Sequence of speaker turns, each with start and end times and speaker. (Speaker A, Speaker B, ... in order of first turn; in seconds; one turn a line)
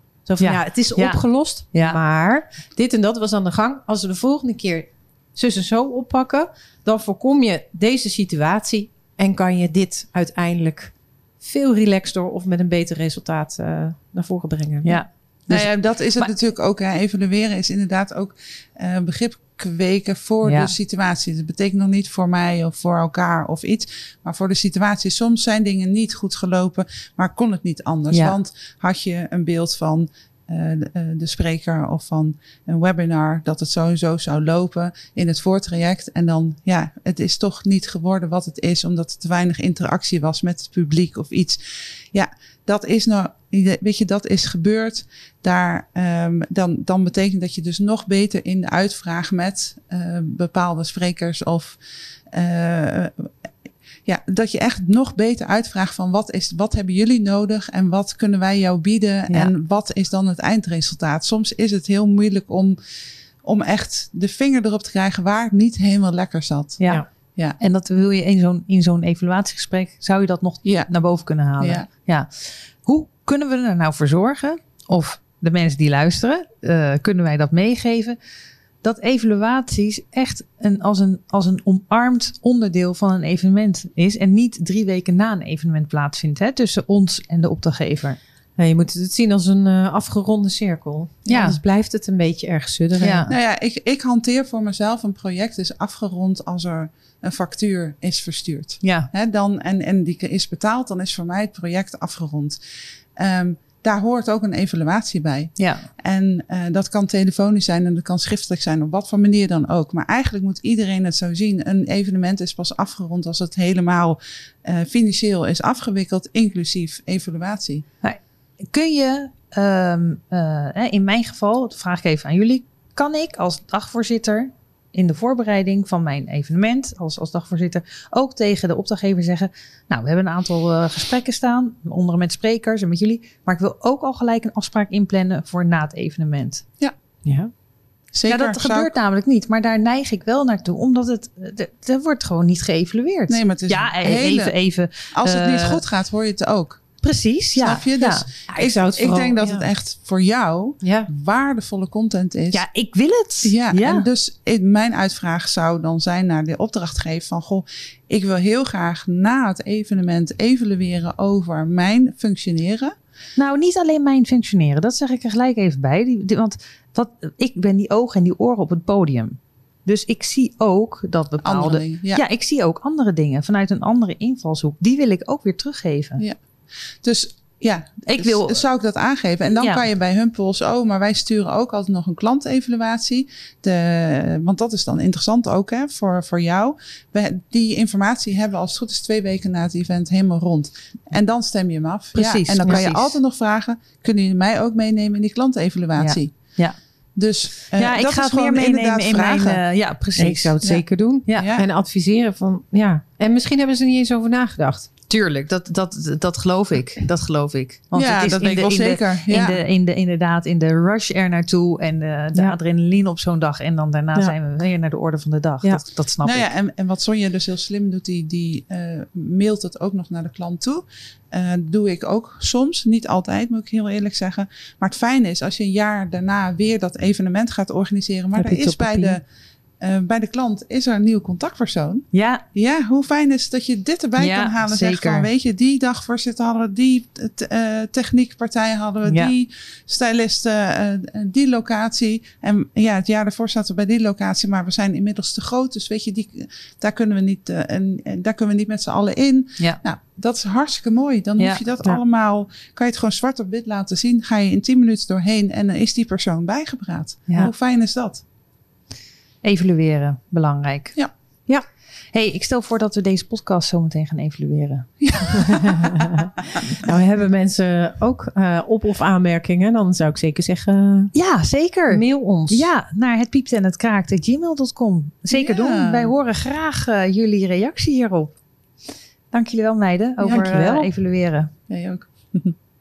Speaker A: 0.2-15.0
Speaker B: 0.4-1.2
Speaker B: 1.7-2.0
Speaker B: 14.8-16.3
Speaker C: 15.5-51.8
Speaker B: 20.4-20.7
Speaker B: 28.1-28.4
Speaker C: 52.3-53.3
Speaker C: 54.0-62.8
Speaker C: 63.4-66.8
Speaker B: 66.8-67.0
Speaker B: 67.6-78.2
Speaker C: 70.6-70.9
Speaker C: 71.6-71.9
Speaker B: 78.8-88.2
Speaker A: 88.6-93.3
Speaker B: 91.3-91.6
Speaker B: 93.0-93.3
Speaker C: 93.3-102.6
Speaker B: 98.8-99.1
Speaker C: 103.2-117.8
Speaker B: 105.6-105.8
Speaker B: 118.7-136.6
Speaker A: 137.2-137.5
Speaker C: 138.1-138.9
Speaker B: 138.3-145.8
Speaker C: 143.3-144.5
Speaker C: 145.1-146.8
Speaker B: 147.0-148.2
Speaker C: 147.6-152.6
Speaker A: 148.5-149.7
Speaker A: 150.8-151.1
Speaker B: 152.5-154.1
Speaker C: 153.4-162.9
Speaker B: 163.3-176.2
Speaker C: 171.4-172.2
Speaker C: 177.0-196.3
Speaker B: 178.1-178.6
Speaker B: 192.1-193.2
Speaker B: 196.0-196.8
Speaker C: 197.1-199.6
Speaker B: 197.7-200.6
Speaker A: 200.2-204.9
Speaker C: 201.4-201.7
Speaker B: 205.1-216.5
Speaker C: 207.9-209.6
Speaker C: 216.2-229.2
Speaker A: 228.4-229.2
Speaker C: 229.8-258.2
Speaker B: 232.1-232.4
Speaker B: 234.2-235.3
Speaker B: 239.1-239.3
Speaker B: 259.4-260.9
Speaker B: 262.1-264.9
Speaker C: 265.0-266.7
Speaker A: 265.5-271.1
Speaker B: 271.1-278.3
Speaker A: 271.9-272.7
Speaker C: 275.3-276.1
Speaker B: 279.3-281.5
Speaker A: 280.2-280.9
Speaker C: 280.2-280.5
Speaker C: 281.7-282.5